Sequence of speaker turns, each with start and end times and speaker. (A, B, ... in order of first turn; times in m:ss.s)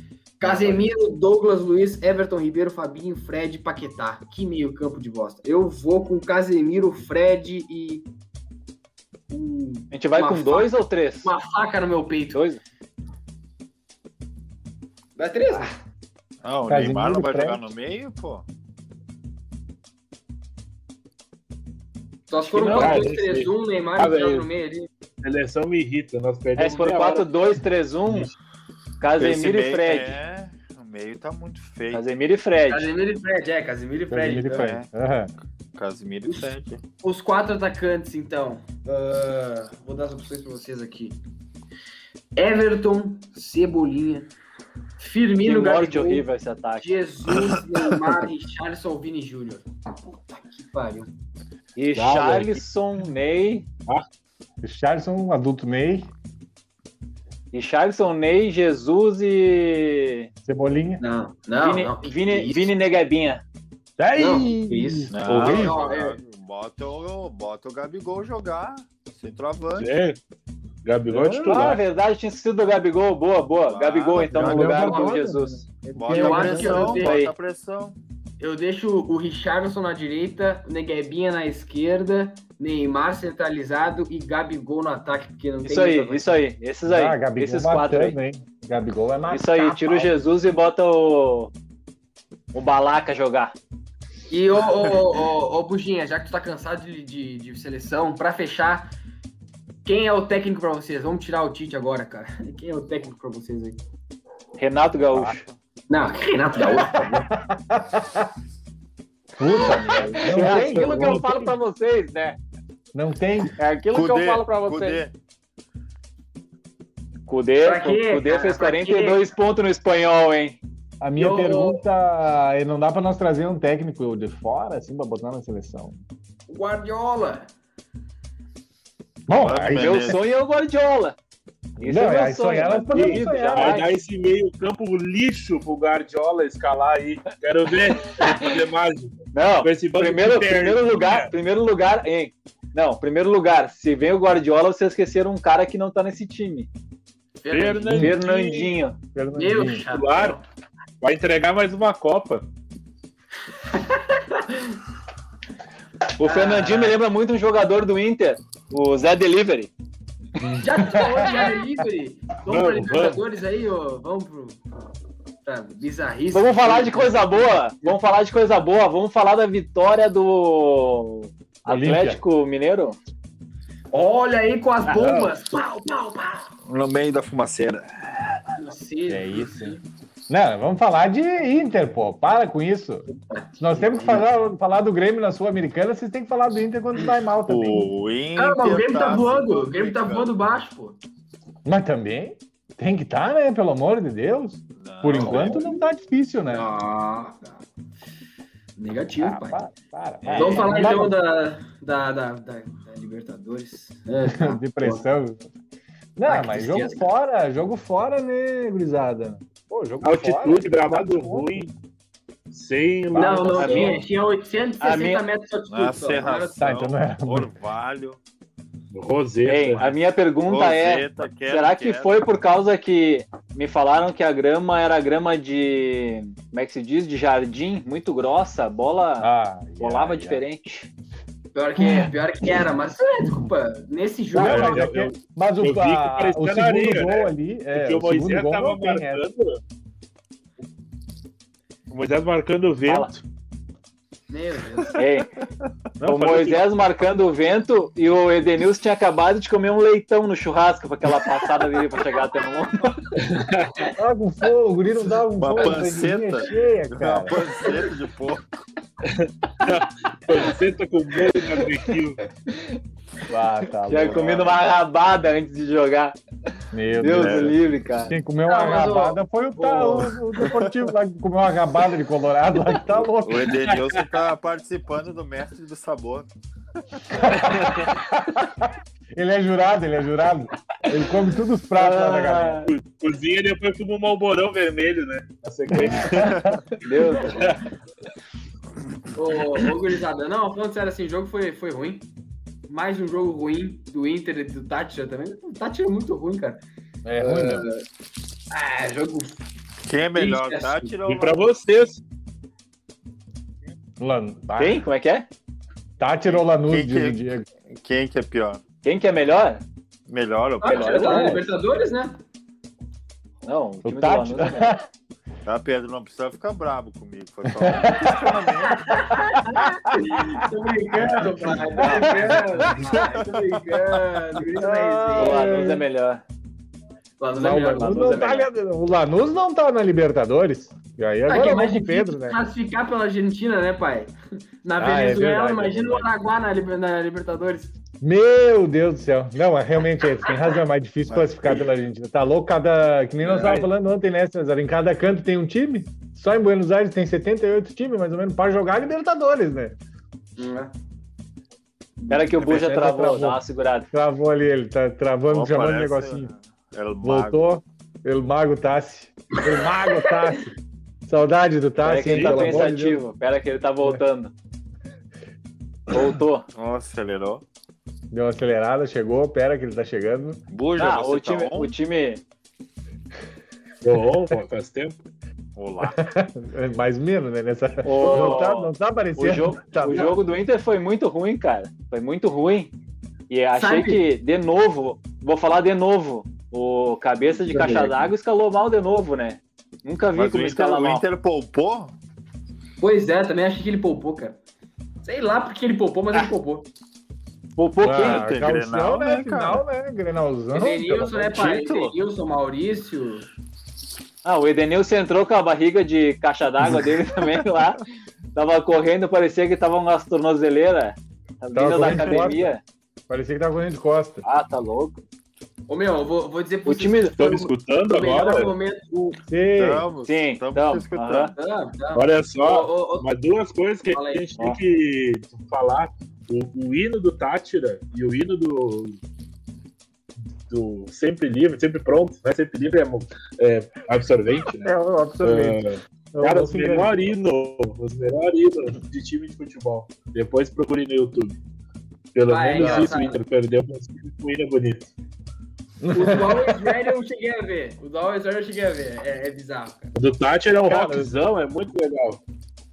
0:00.4-0:08.1 A
0:09.3-0:12.4 A
0:09.9-0:11.3 B
0:12.3-0:12.6 B
0:15.2-0:15.8 A
0:16.4-0:18.4 C
0:16.7-0:17.6 D
0:22.3-0:24.9 A
0:22.4-0:23.1 B
0:22.7-0:24.5 E
0:25.2-0:27.6 E
0:26.6-0:28.3 B
0:28.1-0:28.3 E
0:29.0-0:30.2 B
0:29.1-0:32.0 C
0:31.9-0:32.9 B
0:32.7-0:34.7 A
0:34.1-0:35.3 D
0:34.5-0:34.9 C
0:35.7-0:36.8 C
0:36.2-0:41.2 A
0:42.4-0:44.3 A
0:45.0-0:46.2 A
0:45.4-0:46.9 B
0:46.8-0:51.1 A
0:51.8-0:53.7 B
0:51.9-0:52.6 E
0:54.6-0:56.1 D
0:57.5-1:00.3 B
1:00.4-1:01.0 D
1:01.0-1:02.7 A
1:01.6-1:03.4 B
1:04.0-1:05.8 D
1:04.2-1:06.2 A
1:05.1-1:09.9 C
1:09.8-1:10.2 E
1:10.8-1:11.8 E
1:11.1-1:11.8 D
1:11.5-1:15.6 B
1:13.6-1:15.0 C
1:14.3-1:17.0 D
1:16.0-1:18.0 C
1:16.1-1:17.2 A
1:16.6-1:17.3 B
1:18.4-1:26.3 A
1:25.6-1:28.2 B
1:26.8-1:30.1 D
1:29.3-1:31.5 B
1:32.5-1:33.6 B
1:34.3-1:38.9 A
1:39.8-1:43.8 A
1:44.6-1:45.4 B
1:45.9-1:47.3 A
1:47.0-1:48.3 D
1:49.4-1:51.6 D
1:49.5-1:50.2 A
1:50.2-1:52.4 B
1:50.2-1:51.3 E
1:52.9-1:53.5 D
1:53.6-1:55.0 B
1:53.9-1:55.1 C
1:57.3-2:00.6 B
1:57.6-1:59.2 A
2:01.0-2:06.0 D
2:01.2-2:01.8 A
2:06.5-2:07.5 A
2:09.3-2:10.1 D
2:09.3-2:10.3 C
2:09.7-2:11.2 B
2:11.8-2:13.8 D
2:11.8-2:13.9 B
2:12.9-2:21.3 E
2:18.1-2:18.5 B
2:19.3-2:26.7 B
2:27.4-2:28.1 A
2:27.5-2:28.8 E
2:27.9-2:28.2 D
2:28.0-2:29.0 B
2:29.1-2:29.9 D
2:29.4-2:30.4 A
2:29.9-2:30.4 E
2:31.0-2:32.4 E
2:33.7-2:34.8 A
2:36.2-2:39.7 B
2:36.2-2:37.0 A
2:40.5-2:41.5 D
2:40.5-2:44.6 A
2:42.4-2:43.2 E
2:45.4-2:47.9 A
2:46.3-2:53.0 B
2:51.6-2:52.2 D
2:53.9-2:56.5 A
2:54.9-2:55.2 E
2:56.6-2:58.5 C
2:58.6-2:59.8 A
2:59.1-2:59.8 D
3:00.3-3:03.1 D
3:03.3-3:04.2 A
3:03.6-3:07.9 D
3:07.4-3:10.3 C
3:08.4-3:11.0 A
3:11.6-3:16.7 D
3:14.8-3:15.6 C
3:15.2-3:15.7 A
3:16.5-3:17.6 A
3:18.8-3:19.6 A
3:19.2-3:21.2 D
3:20.2-3:20.9 C
3:20.4-3:25.0 A
3:24.2-3:25.5 D
3:26.2-3:31.5 D
3:26.3-3:27.1 A
3:30.0-3:31.7 E
3:32.5-3:34.0 E
3:33.1-3:36.7 A
3:33.2-3:34.0 B
3:34.8-3:35.2 B
3:35.7-3:38.2 C
3:36.6-3:37.5 D
3:38.9-3:39.9 E
3:39.4-3:49.3 B
3:40.4-3:42.2 C
3:49.2-3:50.4 D
3:49.8-3:50.9 B
3:51.6-3:54.9 A
3:51.8-3:52.6 D
3:54.3-3:59.2 D
3:54.4-3:59.6 E
4:01.9-4:03.2 E
4:02.9-4:03.1 B
4:04.3-4:05.0 A
4:04.9-4:05.3 B
4:06.0-4:06.4 D
4:06.0-4:13.1 B
4:06.1-4:06.6 E
4:13.2-4:13.9 E
4:14.0-4:17.4 D
4:15.4-4:18.7 C
4:19.0-4:22.2 E
4:23.3-4:24.3 D
4:23.9-4:26.2 B
4:24.0-4:24.6 C
4:26.7-4:33.5 D
4:27.0-4:28.1 B
4:27.1-4:27.5 C
4:28.4-4:30.1 A
4:30.4-4:30.8 C
4:33.2-4:36.3 C
4:37.0-4:37.8 C
4:37.1-4:42.7 D
4:41.8-4:42.7 B
4:42.6-4:46.4 E
4:45.8-4:46.6 D
4:45.9-4:46.6 C
4:46.8-4:47.6 B
4:47.2-4:47.6 E
4:49.1-4:52.1 A
4:52.7-4:56.6 A
4:57.0-4:57.7 D
4:57.2-4:57.8 A
4:58.5-4:59.4 A
4:59.8-5:01.4 C
5:00.2-5:01.0 A
5:01.1-5:02.0 E
5:04.0-5:04.8 D
5:04.6-5:05.3 B
5:06.0-5:07.4 D
5:06.3-5:07.2 C
5:07.7-5:08.6 C
5:08.8-5:09.6 B
5:10.1-5:11.3 C
5:10.6-5:12.2 A
5:10.6-5:11.4 B
5:11.0-5:11.4 D
5:13.4-5:14.8 B
5:13.8-5:14.8 D
5:15.4-5:19.0 C
5:17.5-5:18.4 D
5:18.6-5:25.5 A
5:19.5-5:20.4 D
5:21.0-5:22.7 D
5:21.7-5:22.4 B
5:22.8-5:24.0 C
5:24.6-5:25.8 D
5:25.2-5:26.2 B
5:27.2-5:28.3 A
5:27.3-5:32.4 D
5:27.7-5:28.5 B
5:31.2-5:37.7 A
5:34.8-5:36.1 D
5:38.0-5:49.8 D
5:41.1-5:41.6 C
5:43.2-5:43.6 A
5:50.4-5:50.7 A
5:52.1-5:53.9 B
5:52.1-5:53.4 D
5:53.9-5:56.3 D
5:55.3-5:57.4 C
5:57.0-6:00.5 D
6:01.1-6:03.0 D
6:01.8-6:04.3 B
6:02.1-6:02.7 E
6:05.9-6:06.4 B
6:06.6-6:07.4 C
6:08.1-6:10.4 D
6:10.5-6:11.8 C
6:10.8-6:12.2 B
6:13.8-6:15.0 E
6:15.6-6:16.0 C
6:15.8-6:20.1 D
6:17.8-6:22.7 B
6:18.0-6:18.4 A
6:23.3-6:31.1 B
6:23.6-6:24.0 A
6:27.4-6:28.1 A
6:30.1-6:32.0 C
6:32.8-6:34.4 A
6:35.0-6:36.7 A
6:37.6-6:38.3 B
6:37.8-6:41.3 D
6:37.9-6:39.6 C
6:40.5-6:43.2 A
6:41.3-6:42.0 C
6:44.2-6:47.8 B
6:48.4-6:52.6 B
6:51.6-6:52.5 D
6:51.9-6:52.3 C
6:53.1-6:54.2 D
6:54.2-6:55.0 B
6:55.7-6:59.2 A
6:56.6-6:57.2 B
6:57.2-6:58.5 E
6:59.3-6:59.9 D
6:59.6-7:01.3 C
7:00.1-7:01.3 B
7:01.4-7:03.1 A
7:01.9-7:09.0 E
7:03.9-7:04.2 A
7:10.5-7:21.4 E
7:14.6-7:15.6 D
7:16.1-7:17.1 D
7:22.1-7:24.9 E
7:22.3-7:23.2 A
7:22.6-7:22.9 D
7:25.8-7:26.7 D
7:25.9-7:29.9 A
7:30.0-7:32.2 E
7:30.7-7:31.1 D